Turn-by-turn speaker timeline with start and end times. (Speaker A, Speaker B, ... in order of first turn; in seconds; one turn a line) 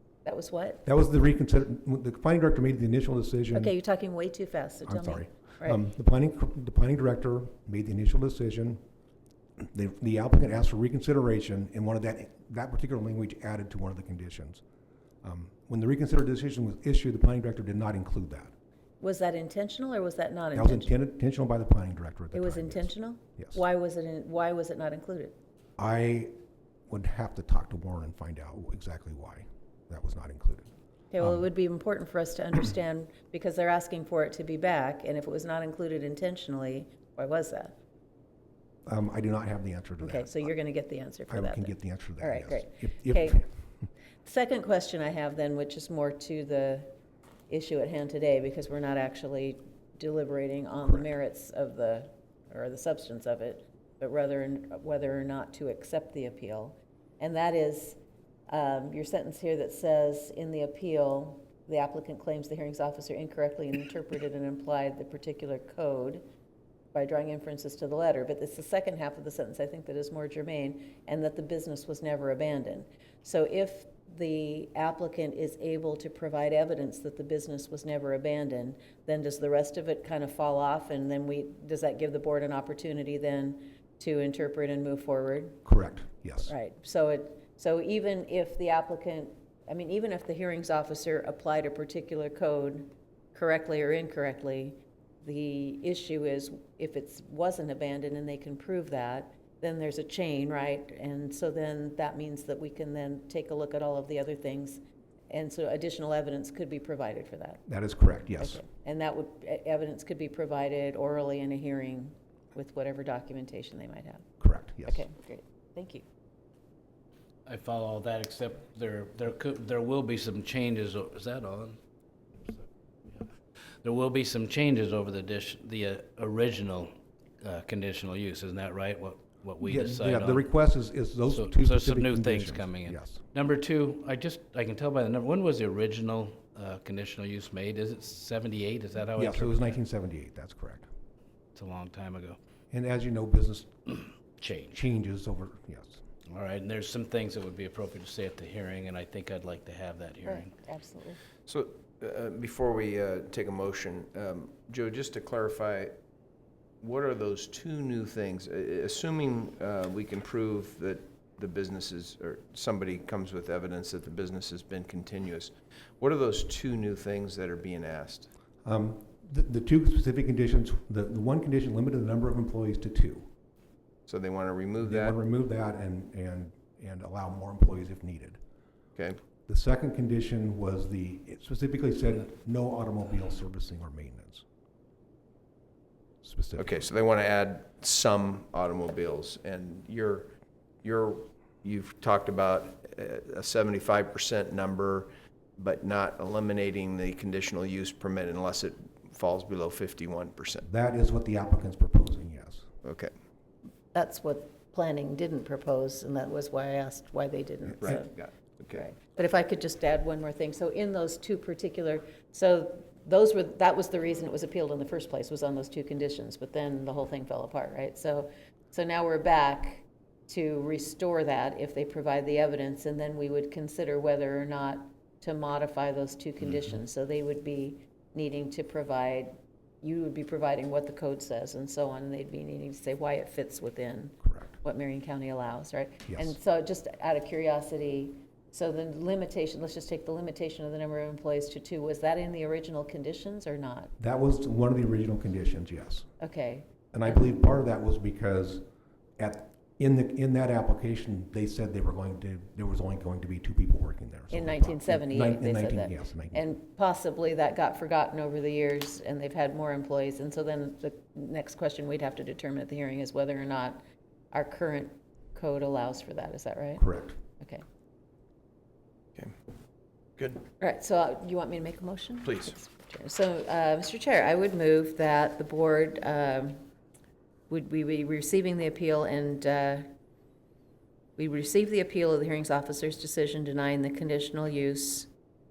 Speaker A: 0.2-0.8
Speaker B: 0.8-3.7
Speaker A: 3.5-5.8
Speaker B: 4.9-8.8
Speaker B: 9.6-14.6
Speaker B: 15.2-18.5
Speaker A: 19.0-20.9
Speaker B: 20.5-23.6
Speaker A: 22.3-25.4
Speaker B: 25.8-26.3
Speaker B: 26.9-31.4
Speaker A: 31.1-37.8
Speaker B: 38.9-40.5
Speaker A: 40.0-43.4
Speaker B: 41.3-43.5
Speaker A: 44.2-46.9
Speaker A: 47.5-66.2
Speaker A: 66.9-85.6
Speaker B: 85.6-86.5
Speaker A: 86.5-107.6
Speaker B: 107.7-108.6
Speaker A: 108.4-114.3
Speaker B: 114.4-115.1
Speaker A: 114.8-116.0
Speaker C: 117.5-121.8
Speaker C: 122.5-130.5
Speaker B: 129.6-133.2
Speaker C: 131.3-139.6
Speaker B: 139.2-140.9
Speaker C: 141.5-142.4
Speaker B: 142.7-143.7
Speaker C: 144.4-144.8
Speaker B: 144.7-146.0
Speaker C: 146.2-150.5
Speaker A: 150.2-151.2
Speaker D: 151.4-155.9
Speaker D: 156.8-168.3
Speaker B: 168.6-173.3
Speaker D: 174.1-175.2
Speaker B: 174.8-178.4
Speaker B: 179.5-184.4
Speaker B: 186.2-186.7
Speaker D: 186.6-190.3
Speaker D: 190.8-200.7
Speaker B: 200.6-202.7
Speaker D: 202.8-203.1
Speaker A: 203.9-208.1
Speaker D: 207.8-208.9
Speaker A: 208.7-243.9
Speaker B: 234.2-234.5
Speaker B: 236.1-236.3
Speaker B: 244.0-246.1
Speaker A: 246.2-247.2
Speaker B: 246.9-248.6
Speaker B: 249.2-256.5
Speaker A: 254.3-266.8
Speaker B: 266.8-267.2
Speaker A: 267.4-267.6
Speaker D: 270.2-270.4
Speaker A: 270.6-276.6
Speaker D: 272.2-272.5
Speaker A: 277.5-279.9
Speaker A: 281.2-285.1